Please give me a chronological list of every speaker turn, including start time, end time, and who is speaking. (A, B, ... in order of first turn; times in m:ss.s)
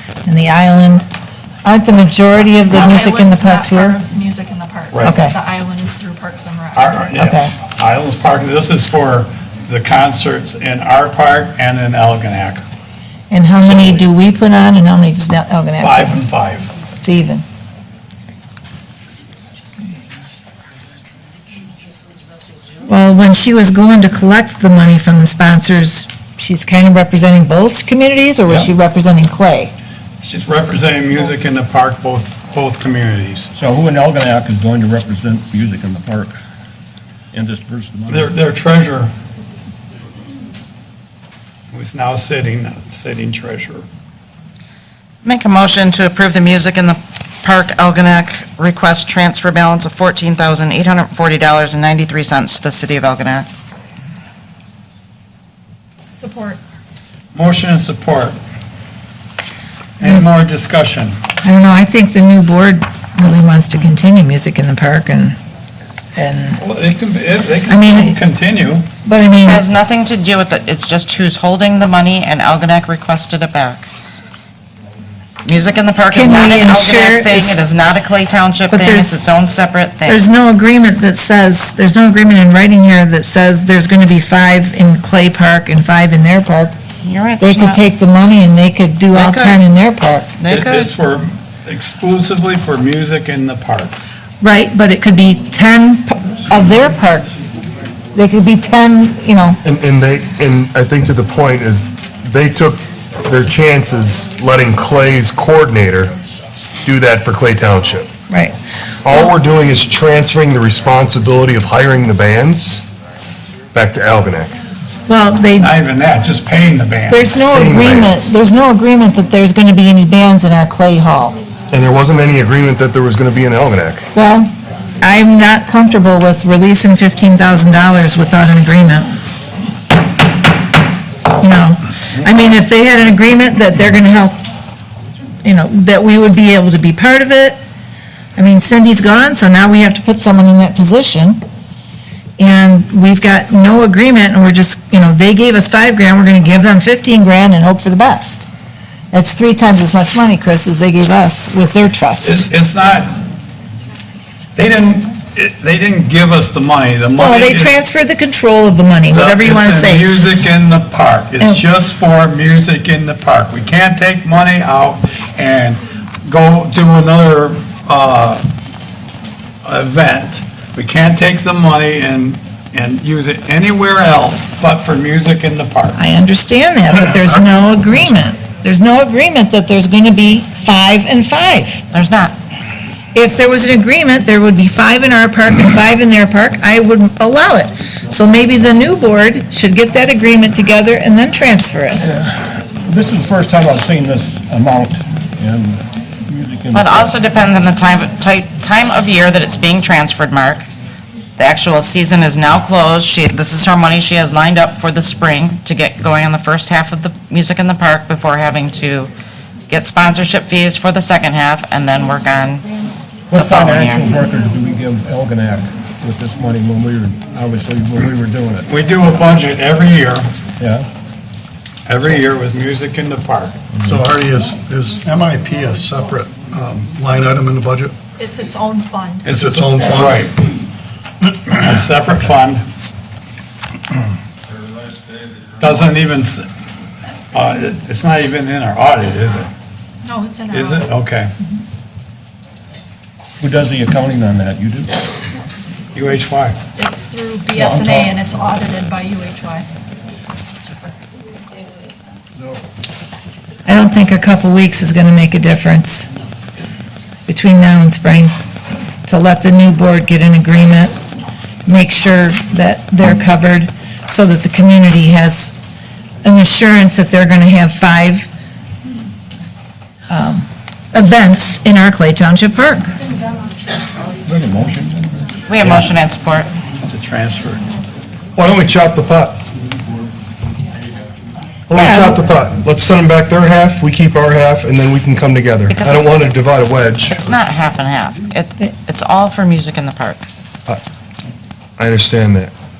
0:00.2-0:01.1 A
0:01.6-0:04.0 A
0:02.6-0:07.1 B
0:04.9-0:05.2 C
0:05.0-0:05.4 A
0:06.8-0:12.6 C
0:07.2-0:07.5 A
0:13.3-0:16.2 A
0:15.8-0:16.7 C
0:17.0-0:17.4 A
0:22.9-0:29.7 A
0:30.2-0:33.5 C
0:33.5-0:36.4 D
0:37.3-0:38.4 D
0:38.1-0:39.1 C
0:41.7-0:43.9 C
0:45.2-0:53.5 E
0:56.1-0:56.6 B
0:57.3-0:58.4 C
1:00.0-1:01.2 C
1:01.4-1:05.4 A
1:06.2-1:06.6 A
1:06.6-1:08.9 C
1:07.7-1:08.2 A
1:09.0-1:09.6 A
1:09.4-1:13.9 E
1:15.4-1:20.2 E
1:16.1-1:17.6 A
1:18.7-1:19.2 A
1:20.1-1:26.8 A
1:27.0-1:27.8 E
1:27.4-1:30.3 A
1:29.1-1:29.6 E
1:30.4-1:30.9 E
1:30.5-1:34.0 C
1:34.4-1:37.3 A
1:38.2-1:39.6 A
1:39.6-1:46.2 F
1:46.8-1:48.1 F
1:49.0-1:52.8 F
1:53.7-1:54.5 F
1:55.1-1:55.7 A
1:55.6-1:57.4 C
1:57.1-2:01.4 A
1:57.5-1:58.2 F
2:01.7-2:04.0 F
2:04.1-2:09.1 A
2:11.4-2:14.4 A
2:15.4-2:17.6 A
2:18.4-2:21.4 A
2:22.4-2:28.4 A
2:29.1-2:32.5 A
2:32.2-2:33.2 C
2:34.6-2:37.8 C
2:37.2-2:40.1 A
2:39.1-2:48.5 C
2:49.6-2:56.0 C
2:56.0-3:01.8 A
3:01.9-3:02.4 E
3:03.2-3:12.0 A
3:12.0-3:17.2 D
3:16.7-3:20.7 E
3:21.4-3:29.1 E
3:29.7-3:32.7 E
3:33.3-3:38.7 D
3:33.4-3:34.1 E
3:38.7-3:40.3 C
3:40.6-3:40.9 D
3:41.9-3:43.6 C
3:43.8-3:48.0 G
3:48.2-3:49.3 B
3:49.2-3:50.4 C
3:49.3-3:50.3 G
3:51.5-3:52.6 C
3:55.6-3:56.5 C
3:57.3-3:59.5 C
4:00.0-4:00.9 B
4:00.5-4:01.3 C
4:03.4-4:04.9 D
4:06.0-4:06.6 C
4:06.8-4:09.7 B
4:07.6-4:08.2 D
4:13.7-4:16.1 A
4:17.3-4:18.4 A
4:19.1-4:21.0 A
4:21.7-4:25.6 A
4:26.2-4:28.3 A
4:30.1-4:32.9 A
4:34.2-4:35.3 D
4:35.5-4:36.5 E
4:36.9-4:37.6 C
4:38.4-4:39.4 F
4:41.7-4:47.3 F
4:41.7-4:42.2 A
4:45.7-4:46.4 E
4:47.1-4:50.2 E
4:51.8-4:52.5 F